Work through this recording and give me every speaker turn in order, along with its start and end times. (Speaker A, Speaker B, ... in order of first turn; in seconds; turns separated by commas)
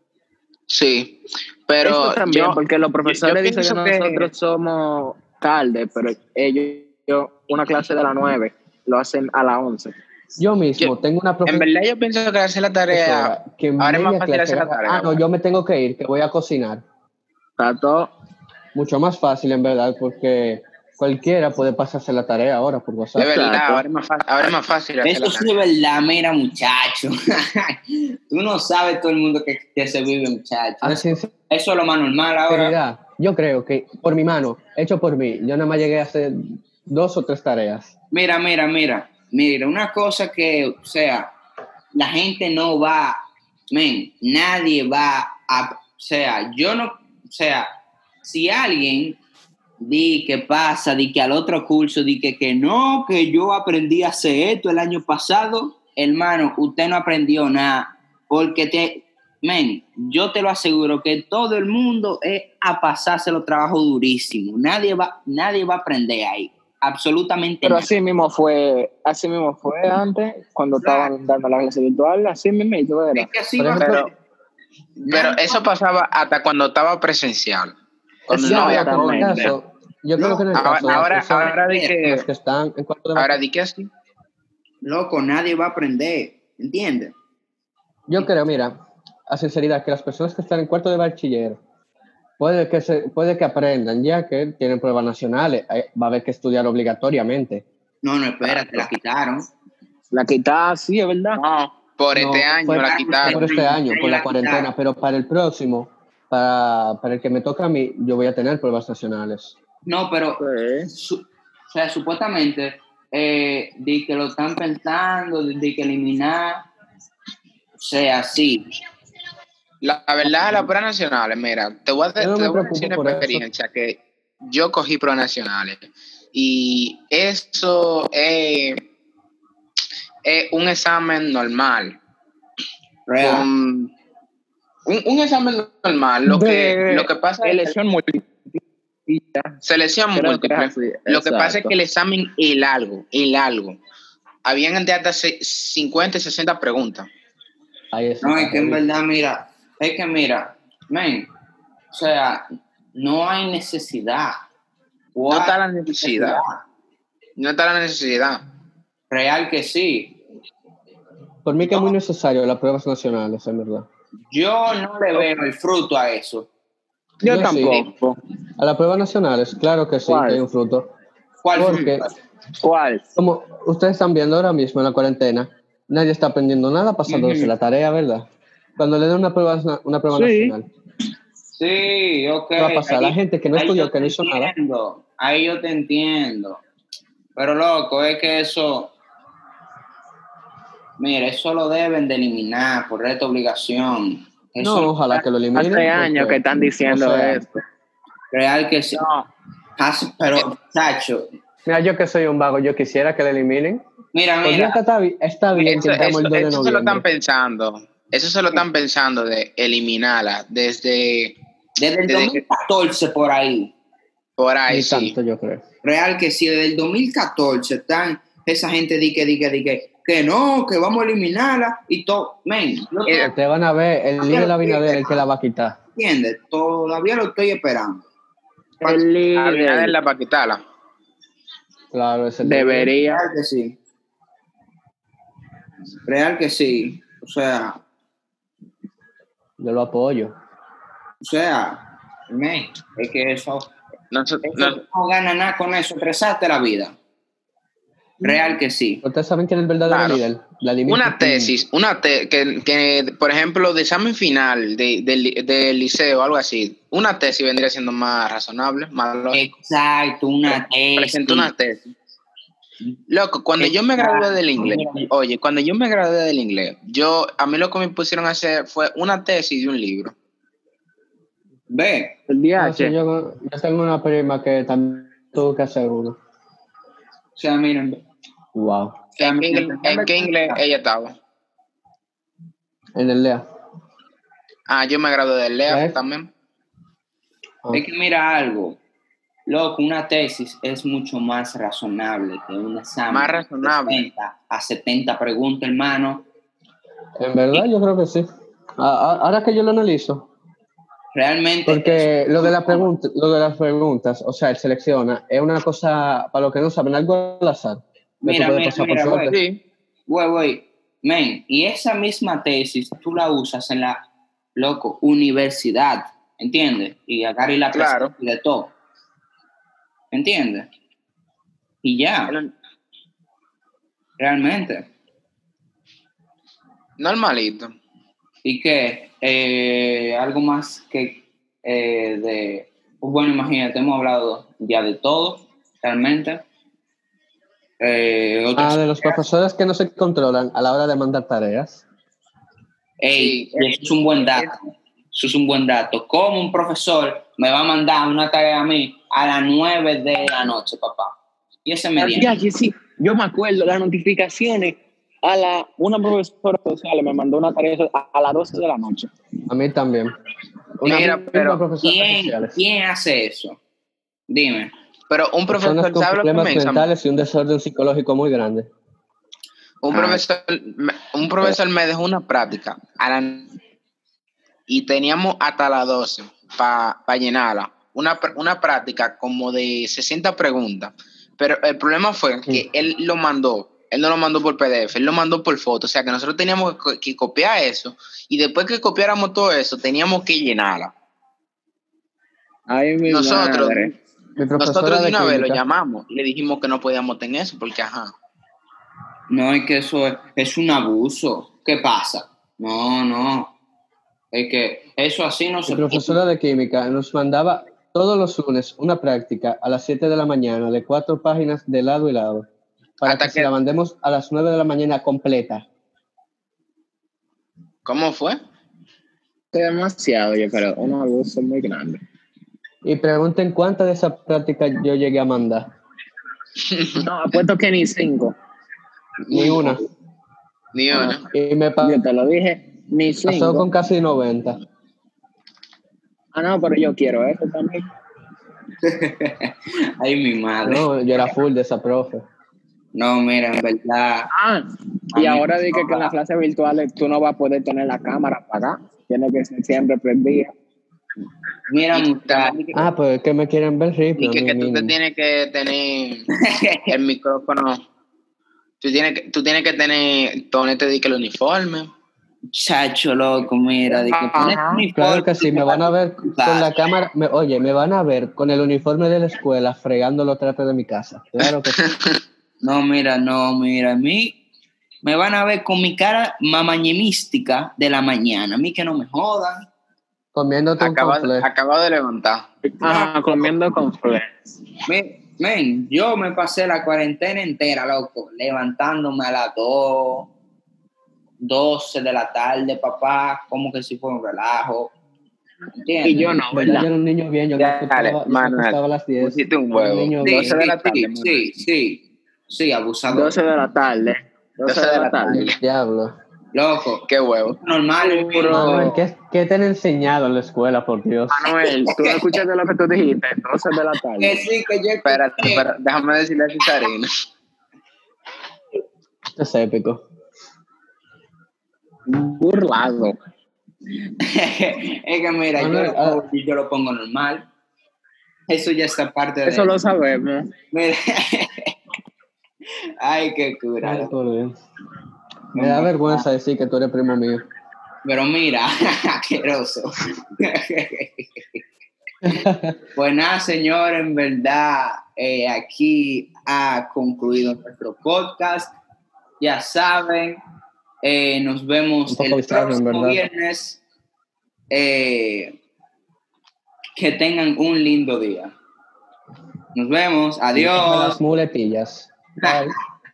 Speaker A: 0.7-4.3, Speaker B: 1.8-9.9, Speaker C: 10.4-11.7, Speaker A: 11.4-15.2, Speaker C: 12.9-16.8, Speaker B: 17.6-18.1, Speaker C: 18.8-23.3, Speaker B: 23.2-23.8, Speaker A: 23.2-25.5, Speaker D: 25.0-32.8, Speaker C: 30.8-31.3, Speaker C: 32.5-37.9, Speaker D: 38.1-41.3, Speaker D: 41.9-43.2, Speaker D: 43.7-47.7, Speaker D: 48.2-49.2, Speaker D: 49.8-67.9, Speaker B: 67.6-73.3, Speaker A: 70.8-71.1, Speaker D: 73.1-74.1, Speaker C: 73.6-74.0, Speaker A: 73.8-74.1, Speaker A: 75.0-77.7, Speaker D: 75.1-75.6, Speaker A: 78.3-79.5, Speaker C: 78.3-83.4, Speaker B: 78.3-79.6, Speaker D: 80.2-81.9, Speaker A: 80.5-82.2, Speaker A: 83.2-83.9, Speaker D: 84.8-87.1, Speaker C: 88.1-88.8, Speaker C: 89.3-91.6, Speaker C: 92.4-97.7, Speaker D: 98.0-99.5, Speaker A: 98.4-98.9, Speaker B: 100.1-101.4, Speaker A: 101.3-103.5, Speaker C: 102.1-109.5, Speaker D: 102.8-104.7, Speaker D: 109.8-110.4, Speaker B: 110.4-110.9, Speaker D: 110.9-116.7, Speaker D: 117.8-118.7, Speaker A: 119.8-128.8, Speaker C: 122.2-123.4, Speaker A: 130.2-132.0, Speaker D: 133.1-133.5, Speaker A: 133.2-133.9, Speaker A: 134.9-137.7, Speaker B: 136.2-139.6, Speaker A: 139.6-143.8, Speaker B: 140.2-141.8, Speaker A: 144.4-147.1, Speaker C: 147.9-148.8, Speaker D: 148.2-151.3, Speaker D: 151.9-152.4, Speaker D: 152.9-154.3, Speaker D: 155.2-156.6, Speaker A: 155.3-156.4, Speaker A: 157.4-158.4, Speaker D: 159.1-160.2, Speaker C: 161.4-163.8, Speaker D: 164.3-166.5, Speaker B: 167.2-168.2, Speaker C: 167.2-167.8, Speaker C: 168.6-170.9, Speaker B: 170.1-170.4, Speaker D: 171.4-172.1, Speaker C: 171.6-172.1, Speaker B: 172.6-173.1, Speaker C: 173.2-180.7, Speaker D: 177.1-177.5, Speaker B: 180.1-180.6, Speaker D: 181.6-186.6, Speaker C: 182.6-184.5, Speaker D: 187.3-188.9, Speaker D: 191.0-195.2, Speaker C: 194.6-197.4, Speaker B: 195.6-197.6, Speaker D: 198.3-199.0, Speaker A: 198.9-199.3, Speaker D: 199.8-201.3, Speaker C: 201.7-203.8, Speaker D: 204.1-204.8, Speaker C: 204.4-207.1, Speaker A: 205.5-211.3, Speaker D: 211.8-213.7, Speaker A: 212.1-212.4, Speaker A: 214.4-215.2, Speaker C: 214.7-215.6, Speaker D: 215.8-223.3, Speaker C: 223.2-225.8, Speaker D: 224.2-225.2, Speaker D: 225.9-228.1, Speaker B: 228.8-229.9, Speaker A: 228.8-230.6, Speaker C: 231.9-232.9, Speaker B: 232.4-233.2, Speaker D: 233.1-233.8, Speaker D: 236.1-237.8, Speaker C: 239.6-240.3, Speaker D: 241.2-243.7, Speaker A: 244.1-244.8, Speaker D: 244.4-246.9, Speaker D: 248.2-249.0, Speaker C: 249.0-251.5, Speaker A: 249.9-250.2, Speaker A: 250.9-259.4, Speaker D: 259.3-261.5, Speaker A: 260.5-261.9, Speaker A: 263.1-270.1, Speaker D: 263.6-265.1, Speaker D: 271.7-272.2, Speaker B: 272.3-272.9, Speaker C: 272.6-276.2, Speaker D: 277.4-278.0, Speaker C: 278.6-279.0, Speaker D: 279.2-280.6, Speaker A: 279.2-281.1, Speaker C: 282.9-283.4, Speaker A: 284.7-286.3, Speaker C: 285.7-285.9, Speaker D: 287.7-288.8, Speaker D: 289.4-296.3, Speaker A: 293.1-294.1, Speaker C: 297.2-298.3, Speaker C: 298.8-300.3, Speaker D: 301.1-302.9, Speaker C: 301.7-309.4, Speaker D: 308.2-309.4, Speaker A: 309.2-309.6, Speaker D: 310.1-314.1, Speaker D: 314.6-318.7, Speaker A: 317.7-318.1, Speaker D: 320.1-320.7, Speaker D: 321.8-322.4, Speaker D: 324.2-324.9, Speaker A: 327.0-327.7, Speaker D: 328.4-336.4, Speaker D: 337.8-339.2, Speaker C: 338.6-341.8, Speaker D: 343.0-344.6, Speaker A: 343.1-343.8, Speaker D: 345.1-352.4, Speaker B: 352.0-359.1, Speaker C: 359.5-360.1, Speaker C: 360.8-362.6, Speaker A: 360.8-361.6, Speaker D: 361.8-363.6, Speaker D: 364.3-364.7, Speaker A: 365.1-366.9, Speaker C: 365.5-368.7, Speaker A: 369.8-373.5, Speaker A: 374.7-390.9, Speaker B: 392.7-393.9, Speaker A: 393.1-393.9, Speaker C: 394.4-395.6, Speaker A: 394.6-398.1, Speaker D: 399.3-403.6, Speaker D: 404.3-406.2, Speaker C: 405.7-412.5, Speaker C: 413.0-415.6, Speaker A: 413.1-413.5, Speaker A: 417.8-418.4, Speaker B: 419.5-422.0, Speaker C: 422.8-425.7, Speaker A: 426.8-427.0, Speaker B: 427.0-428.3, Speaker D: 429.3-429.7, Speaker C: 429.3-429.8, Speaker A: 429.4-429.7, Speaker A: 430.7-431.3, Speaker C: 431.0-432.0, Speaker B: 431.8-433.7, Speaker C: 433.2-434.6, Speaker B: 436.3-437.8, Speaker D: 438.8-441.3, Speaker C: 440.6-442.2, Speaker D: 442.9-444.3, Speaker B: 444.3-444.6, Speaker D: 445.1-446.1, Speaker B: 445.1-450.5, Speaker D: 451.7-452.9, Speaker A: 451.9-452.5, Speaker C: 452.7-454.9, Speaker A: 454.2-456.3, Speaker A: 456.9-457.8, Speaker A: 458.8-461.9, Speaker D: 462.5-466.8, Speaker B: 463.9-464.8, Speaker C: 464.9-471.8, Speaker A: 471.8-472.1, Speaker D: 472.6-474.4, Speaker D: 475.0-479.7, Speaker C: 480.3-481.5, Speaker A: 480.8-483.5, Speaker B: 482.8-484.3, Speaker D: 484.9-490.3, Speaker D: 491.4-494.9, Speaker D: 495.8-496.4, Speaker B: 496.0-496.9, Speaker C: 496.5-500.6, Speaker A: 497.6-501.4, Speaker D: 500.2-503.4, Speaker B: 503.1-505.5, Speaker A: 504.7-505.6, Speaker C: 505.3-506.1, Speaker D: 506.5-507.1, Speaker A: 507.1-507.6, Speaker D: 507.6-509.0, Speaker B: 508.0-509.0, Speaker C: 508.5-511.5, Speaker B: 511.3-514.4, Speaker D: 514.2-515.7, Speaker A: 515.0-517.1, Speaker C: 519.4-520.0, Speaker B: 522.1-523.2, Speaker D: 524.2-527.4, Speaker C: 525.6-526.2, Speaker D: 528.5-529.8, Speaker B: 529.5-530.5, Speaker D: 530.7-531.7, Speaker D: 533.0-534.1, Speaker C: 533.8-534.6, Speaker D: 535.5-536.2, Speaker C: 535.6-537.4, Speaker D: 538.0-539.9, Speaker D: 540.4-541.6, Speaker C: 542.2-542.8, Speaker D: 543.0-548.7, Speaker D: 549.4-550.4, Speaker D: 551.0-553.8, Speaker C: 552.1-553.2, Speaker D: 554.7-555.6, Speaker D: 557.0-558.5, Speaker D: 559.7-561.2, Speaker C: 560.5-562.8